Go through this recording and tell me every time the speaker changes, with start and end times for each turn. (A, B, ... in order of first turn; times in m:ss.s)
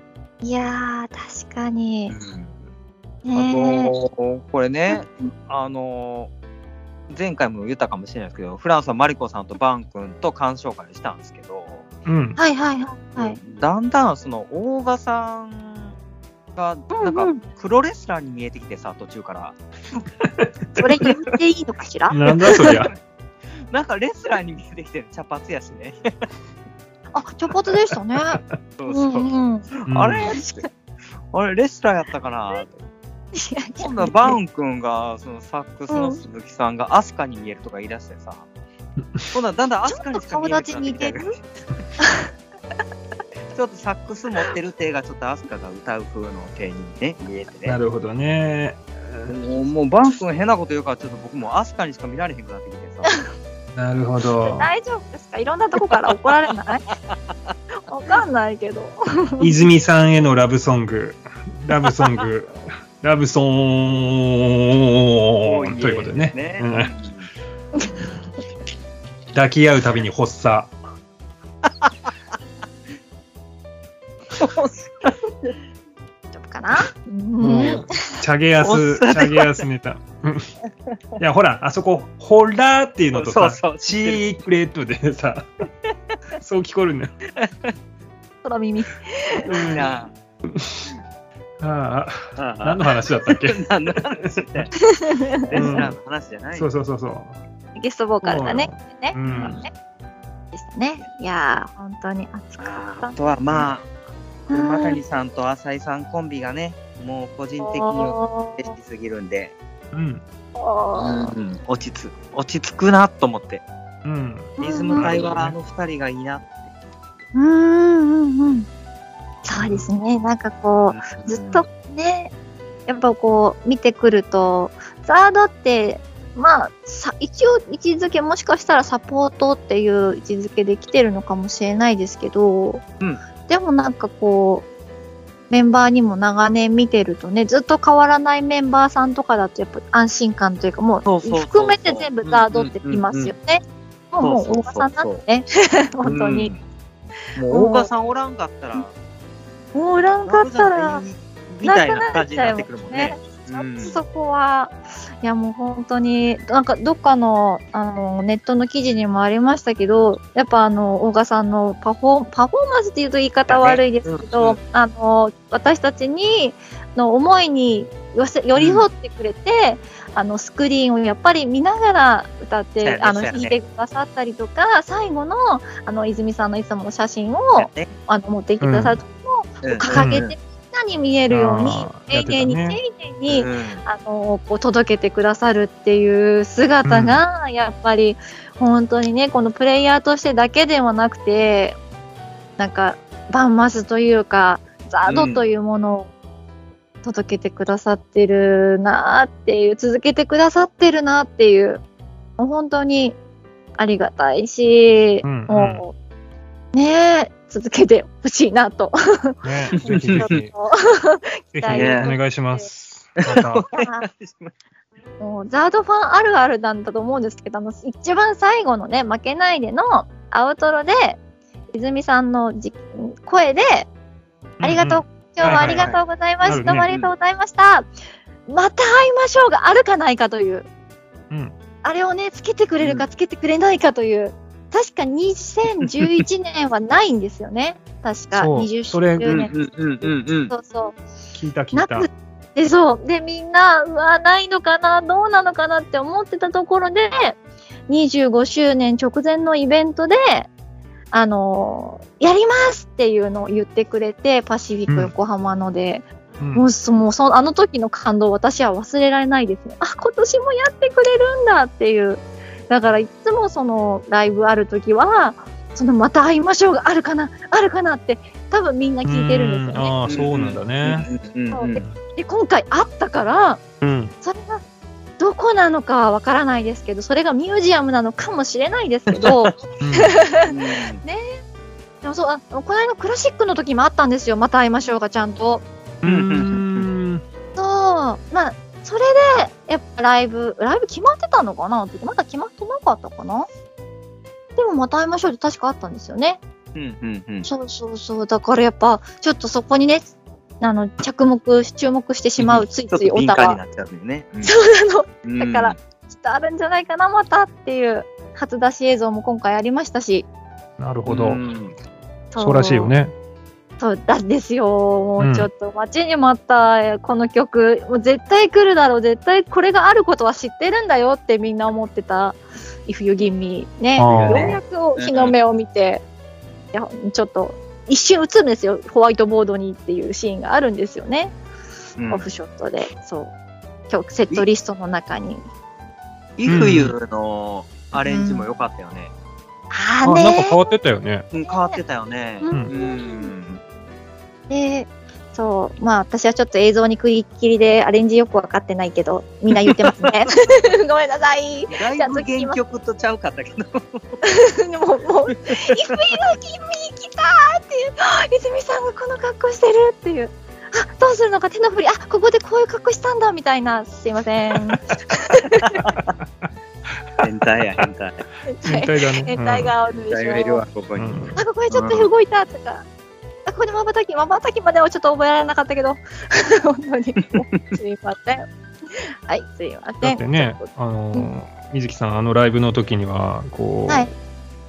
0:00.4-0:02.2 A
0:02.1-0:02.6 B
0:03.2-0:03.9 A
0:03.4-0:06.3 B
0:04.9-0:05.3 A
0:07.1-0:11.9 B
0:12.1-0:12.4 C
0:12.4-0:13.4 A
0:13.2-0:15.9 B
0:16.6-0:19.6 B
0:16.9-0:17.4 A
0:20.8-0:22.8 A
0:22.1-0:22.9 C
0:22.4-0:22.9 B
0:23.7-0:26.1 B
0:27.1-0:29.7 A
0:28.8-0:30.6 B
0:29.9-0:30.3 C
0:30.3-0:30.7 A
0:31.3-0:32.8 B
0:33.3-0:34.4 A
0:33.8-0:38.4 B
0:35.9-0:36.2 A
0:39.3-0:41.4 B
0:39.9-0:41.3 A
0:42.0-0:42.3 A
0:43.5-0:47.8 B
0:47.6-0:49.3 C
0:49.3-0:53.1 B
0:53.8-0:54.7 C
0:54.4-0:56.8 A
0:57.9-0:59.5 A
0:59.4-1:06.9 C
1:05.4-1:07.3 B
1:09.3-1:10.7 C
1:11.7-1:11.9 B
1:14.4-1:15.5 B
1:16.3-1:17.8 A
1:17.4-1:20.5 C
1:18.6-1:19.6 B
1:21.2-1:25.5 C
1:23.1-1:24.3 B
1:26.4-1:27.1 C
1:27.4-1:27.7 B
1:28.4-1:29.5 A
1:29.5-1:29.9 C
1:29.5-1:30.1 B
1:30.5-1:30.9 C
1:31.6-1:34.7 C
1:32.4-1:34.7 B
1:34.8-1:35.8 A
1:35.4-1:36.7 B
1:35.6-1:36.0 C
1:36.5-1:37.4 C
1:37.8-1:39.7 A
1:38.2-1:39.6 C
1:39.3-1:39.6 B
1:40.5-1:43.2 A
1:42.6-1:43.9 B
1:44.5-1:45.0 A
1:44.5-1:49.6 B
1:47.6-1:48.7 A
1:49.9-1:50.2 C
1:50.6-1:51.3 A
1:51.0-1:53.6 B
1:54.0-1:55.6 C
1:54.6-1:55.1 A
1:54.6-1:56.7 B
1:57.3-1:58.7 A
1:59.4-2:02.3 A
1:59.6-1:59.9 C
2:00.9-2:01.6 B
2:02.9-2:12.8 A
2:13.5-2:14.7 A
2:15.5-2:26.5 A
2:21.0-2:23.3 B
2:24.2-2:25.2 B
2:26.0-2:26.6 B
2:27.4-2:28.9 B
2:27.5-2:27.9 A
2:29.8-2:31.0 A
2:30.2-2:34.0 B
2:31.6-3:11.8 A
2:43.5-2:44.6 B
2:48.6-2:48.9 B
2:52.8-2:53.6 B
2:57.6-2:57.9 B
2:58.6-2:59.0 C
2:59.6-3:00.4 B
2:59.9-3:00.2 C
3:01.3-3:02.8 C
3:03.3-3:03.8 B
3:06.8-3:07.2 C
3:12.6-3:16.1 A
3:15.1-3:15.4 B
3:17.0-3:21.8 A
3:22.4-3:23.2 A
3:23.8-3:25.9 A
3:25.2-3:25.8 C
3:26.7-3:32.7 A
3:29.4-3:30.5 C
3:29.9-3:30.3 B
3:31.5-3:33.6 C
3:31.7-3:32.1 B
3:33.2-3:34.5 B
3:33.7-3:34.1 A
3:35.2-3:41.2 A
3:41.7-3:43.9 A
3:44.6-3:46.9 C
3:44.6-3:47.9 A
3:45.5-3:46.0 B
3:48.5-3:50.7 A
3:51.3-3:51.6 C
3:51.8-4:01.0 A
3:58.3-3:59.4 C
3:59.3-4:00.5 B
4:01.3-4:02.1 C
4:01.7-4:07.4 A
4:07.9-4:10.5 A
4:11.1-4:30.0 A
4:14.9-4:15.1 C
4:16.4-4:16.7 C
4:29.1-4:31.1 C
4:30.1-4:31.9 B
4:31.5-4:33.6 A
4:33.8-4:34.1 C
4:34.2-4:34.6 A
4:35.2-4:40.5 A
4:39.1-4:39.6 B
4:39.8-4:40.2 C
4:40.4-4:41.0 B
4:41.0-4:41.4 A
4:42.0-4:45.6 A
4:46.0-4:47.2 C
4:46.0-4:46.9 B
4:47.6-4:53.5 A
4:54.6-4:56.4 A
4:56.8-4:57.5 B
4:57.4-5:03.6 A
5:02.4-5:04.5 B
5:04.4-5:10.3 A
5:05.2-5:05.8 B
5:10.8-5:11.4 C
5:11.1-5:11.8 B
5:12.3-5:12.9 A
5:12.4-5:13.1 C
5:13.8-5:26.0 A
5:15.2-5:15.5 C
5:24.0-5:24.6 C
5:24.1-5:25.3 B
5:26.7-5:31.3 A
5:32.0-5:32.3 B
5:32.1-5:33.3 A
5:33.9-5:35.5 A
5:36.4-5:39.1 B
5:36.5-5:36.9 C
5:38.0-5:38.5 A
5:39.7-5:40.6 A
5:40.0-5:41.3 C
5:41.3-5:43.6 B
5:41.4-5:41.8 A
5:42.4-5:43.3 A
5:44.5-5:52.6 A
5:51.7-5:54.0 B
5:54.2-6:05.8 A
5:55.5-5:56.0 B
6:05.6-6:06.1 B
6:07.2-6:08.2 B
6:08.5-6:10.6 A
6:08.6-6:09.7 C
6:10.1-6:12.1 B
6:11.0-6:11.4 C
6:11.4-6:12.8 A
6:13.5-6:18.5 A
6:17.4-6:17.8 B
6:19.3-6:21.3 A
6:20.0-6:24.1 C